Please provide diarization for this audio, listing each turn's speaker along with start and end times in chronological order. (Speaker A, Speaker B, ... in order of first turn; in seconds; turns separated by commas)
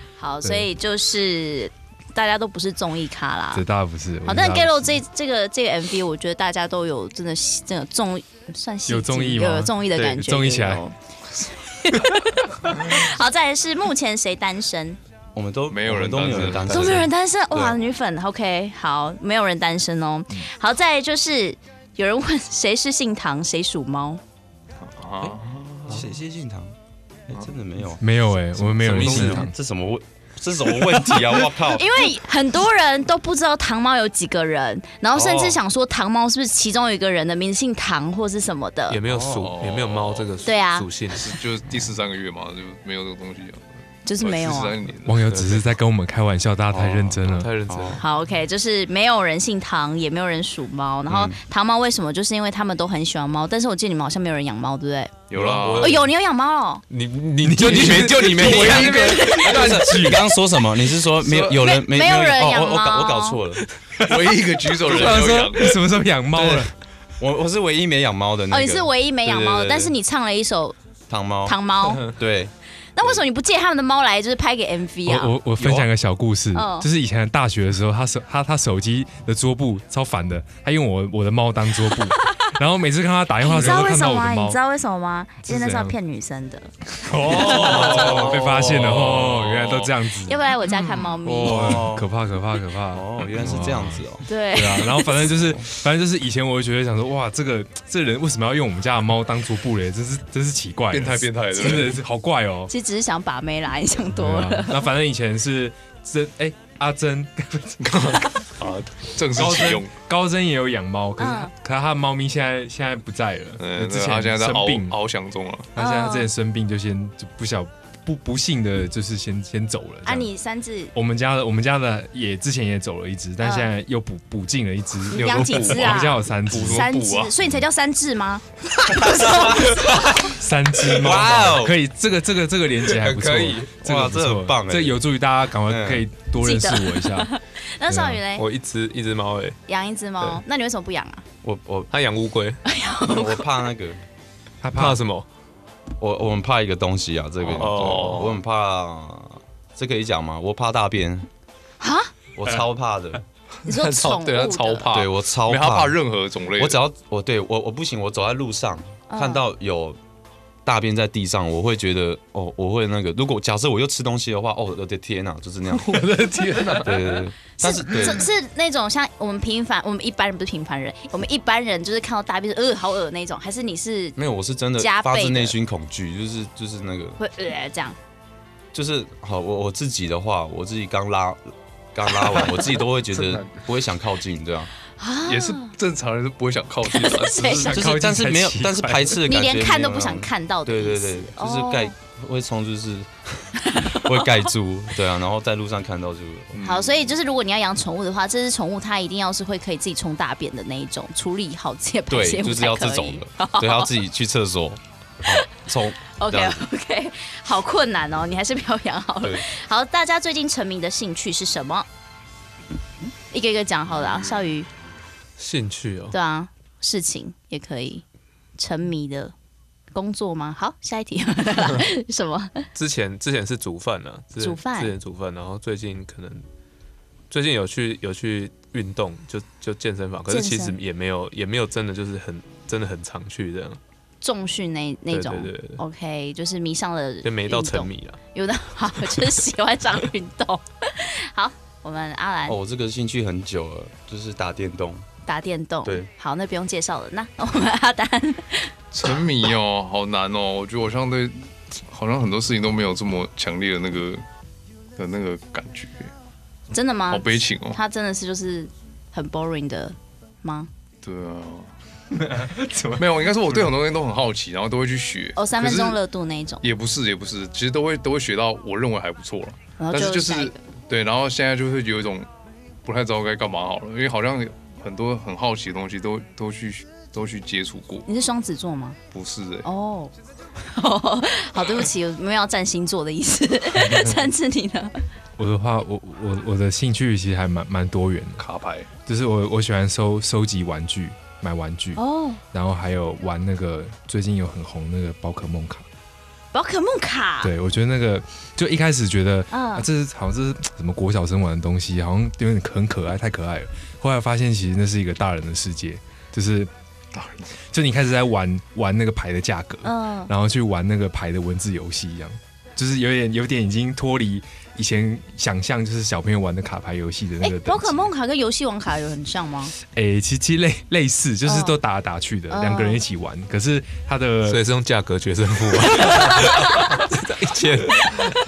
Speaker A: 0.2-3.6, Speaker B: 0.4-0.7, Speaker B: 3.5-5.0, Speaker A: 4.2-10.9, Speaker B: 8.9-10.8, Speaker A: 11.7-15.0, Speaker C: 15.3-17.8, Speaker D: 15.7-17.1, Speaker A: 16.7-24.2, Speaker D: 24.8-26.0, Speaker C: 25.2-26.7, Speaker C: 27.3-32.0, Speaker B: 28.0-29.5, Speaker E: 28.8-29.5, Speaker A: 31.6-39.0, Speaker C: 35.1-35.6, Speaker E: 38.9-41.4, Speaker C: 39.0-39.5, Speaker D: 39.3-40.3, Speaker A: 40.4-40.9, Speaker D: 41.1-43.6, Speaker A: 44.0-44.8, Speaker D: 44.2-45.3, Speaker B: 45.0-47.5, Speaker E: 45.3-45.6, Speaker C: 46.7-48.0, Speaker E: 47.2-48.0, Speaker A: 48.0-55.1, Speaker C: 51.1-51.4, Speaker D: 55.3-56.0, Speaker E: 55.3-56.1, Speaker C: 55.4-55.8, Speaker A: 55.8-56.8, Speaker E: 56.9-59.7, Speaker B: 57.4-60.1, Speaker D: 57.8-60.2, Speaker C: 58.5-63.6, Speaker D: 61.2-61.6, Speaker A: 61.5-63.4, Speaker D: 64.0-65.8, Speaker B: 64.0-66.7, Speaker C: 66.3-69.9, Speaker A: 68.5-70.8, Speaker C: 71.1-72.5, Speaker A: 71.5-72.1, Speaker A: 73.0-75.3, Speaker B: 75.0-84.6, Speaker C: 75.6-75.9, Speaker A: 76.5-76.9, Speaker A: 83.4-86.7, Speaker B: 85.4-86.0, Speaker B: 87.0-90.4, Speaker C: 87.2-89.5, Speaker A: 87.3-88.0, Speaker D: 89.1-89.9, Speaker A: 90.2-91.8, Speaker D: 90.7-91.1, Speaker C: 91.3-92.1, Speaker B: 91.3-102.7, Speaker C: 92.9-94.2, Speaker A: 94.3-95.2, Speaker C: 95.3-95.6, Speaker D: 100.9-102.0, Speaker A: 102.7-104.9, Speaker B: 104.1-108.2, Speaker D: 107.8-110.0, Speaker B: 109.3-115.0, Speaker A: 111.2-111.5, Speaker D: 113.6-115.7, Speaker B: 115.7-120.3, Speaker A: 115.8-116.3, Speaker A: 120.0-120.9, Speaker B: 120.9-127.0, Speaker A: 123.4-123.7, Speaker A: 125.1-129.5, Speaker D: 125.1-127.3, Speaker C: 129.0-129.6, Speaker B: 130.2-137.3, Speaker C: 130.9-131.8, Speaker E: 132.8-133.7, Speaker C: 133.8-135.0, Speaker C: 135.7-136.1, Speaker A: 136.4-138.4, Speaker B: 137.9-138.2, Speaker E: 138.3-139.6, Speaker A: 139.7-141.2, Speaker C: 141.4-141.9, Speaker E: 141.9-142.6, Speaker A: 142.6-143.5, Speaker C: 143.1-144.0, Speaker B: 144.6-145.0, Speaker E: 144.7-145.2, Speaker C: 146.0-151.3, Speaker E: 147.5-148.3, Speaker D: 147.5-148.4, Speaker A: 151.8-152.1, Speaker C: 152.3-153.2, Speaker A: 153.7-154.9, Speaker D: 153.7-156.8, Speaker C: 154.9-156.0, Speaker C: 156.6-160.0, Speaker A: 159.1-159.4, Speaker C: 160.6-166.1, Speaker D: 165.8-167.1, Speaker C: 166.8-168.3, Speaker A: 167.6-174.2, Speaker C: 174.2-177.2, Speaker A: 174.8-175.6, Speaker A: 177.2-178.0, Speaker C: 178.7-184.7, Speaker D: 183.1-183.6, Speaker A: 185.0-185.7, Speaker D: 185.2-187.8, Speaker A: 186.9-187.8, Speaker B: 187.4-189.2, Speaker C: 187.7-196.6, Speaker A: 189.2-191.9, Speaker A: 193.6-194.5, Speaker D: 196.5-197.1, Speaker A: 196.6-203.9, Speaker C: 202.1-206.6, Speaker A: 206.2-211.9, Speaker A: 213.3-214.7, Speaker E: 215.4-216.1, Speaker A: 216.1-218.0, Speaker A: 218.6-219.3, Speaker A: 219.9-222.6, Speaker E: 222.7-226.4, Speaker A: 224.4-224.9, Speaker E: 227.3-233.8, Speaker A: 230.3-230.8, Speaker A: 234.2-242.6, Speaker E: 235.1-235.8, Speaker E: 237.2-238.2, Speaker C: 242.5-245.0, Speaker A: 245.2-248.7, Speaker D: 248.9-254.2, Speaker D: 255.0-256.1, Speaker A: 256.7-260.7, Speaker D: 257.1-257.8, Speaker D: 261.0-261.7, Speaker B: 262.1-263.7, Speaker D: 262.9-266.0, Speaker A: 265.4-266.6, Speaker D: 266.6-272.3, Speaker A: 269.8-270.6, Speaker D: 272.8-278.0, Speaker A: 278.1-279.0, Speaker D: 279.1-279.7, Speaker A: 279.6-285.0, Speaker B: 283.7-284.2, Speaker B: 285.4-288.4, Speaker D: 288.4-288.9, Speaker B: 289.0-295.8, Speaker A: 291.9-292.4, Speaker A: 296.5-297.5, Speaker B: 297.4-306.7, Speaker A: 299.5-299.9, Speaker D: 307.1-307.5, Speaker B: 307.7-318.0, Speaker A: 309.8-310.3, Speaker A: 317.4-319.7, Speaker B: 319.9-324.6, Speaker A: 321.4-321.8, Speaker A: 322.5-323.0, Speaker E: 324.4-328.4, Speaker A: 326.2-326.8